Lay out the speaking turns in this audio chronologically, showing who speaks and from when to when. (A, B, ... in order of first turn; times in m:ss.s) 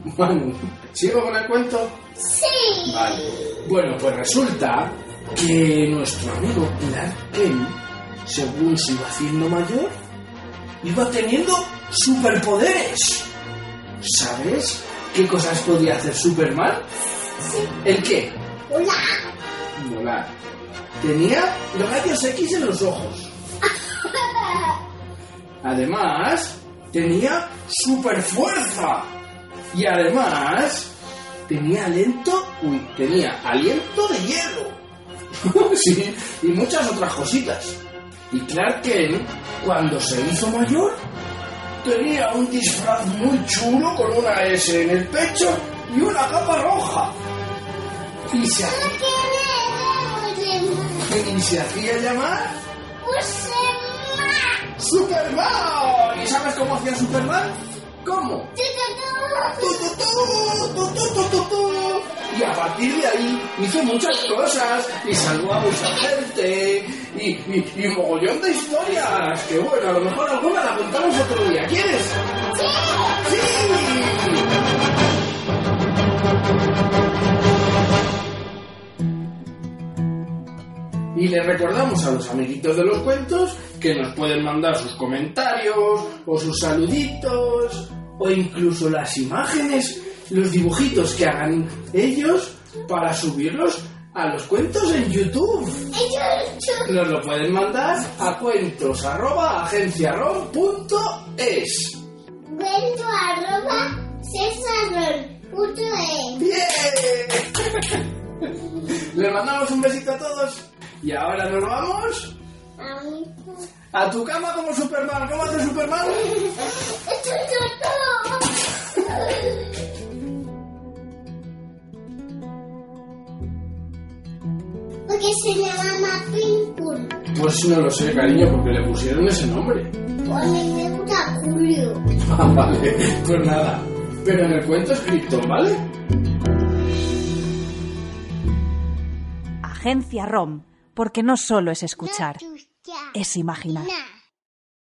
0:00.1-0:02.0 A
0:02.2-0:03.6 B
0:02.8-0:09.9 A
0:10.8-0:13.3 A
0:14.0-0:16.8 A
0:17.4-0:17.7 B
0:17.8-0:18.4 A
0:18.7-0:19.2 B
0:19.7-0:20.3 A
0:21.0-0:23.3 A
0:24.0-0:24.8 B
0:25.6-0:29.1 A
0:29.7-0:30.9 A
0:31.5-0:34.8 A
0:35.4-0:37.8 A
0:38.3-0:41.0 A
0:41.8-0:47.2 A
0:48.3-0:49.0 A
0:48.6-0:51.2 B
0:51.0-0:52.6 A
0:53.0-0:54.6 B
0:54.8-0:58.5 A
0:58.6-0:59.9 B
0:59.4-1:12.2 A
1:05.8-1:06.1 B
1:12.5-1:13.2 B
1:13.2-1:14.5 A
1:21.1-1:35.9 A
1:35.9-1:37.0 B
1:36.8-1:42.0 A
1:42.4-1:46.4 B
1:46.4-1:48.0 A
1:48.9-1:52.3 A
1:52.8-1:53.7 B
1:53.9-1:56.3 A
1:56.1-1:59.6 B
2:05.0-2:07.2 B
2:07.3-2:09.9 A
2:10.2-2:12.1 B
2:12.2-2:15.8 A
2:19.6-2:22.4 C
2:22.0-2:23.2 B
2:23.1-2:23.9 C
2:23.7-2:24.1 B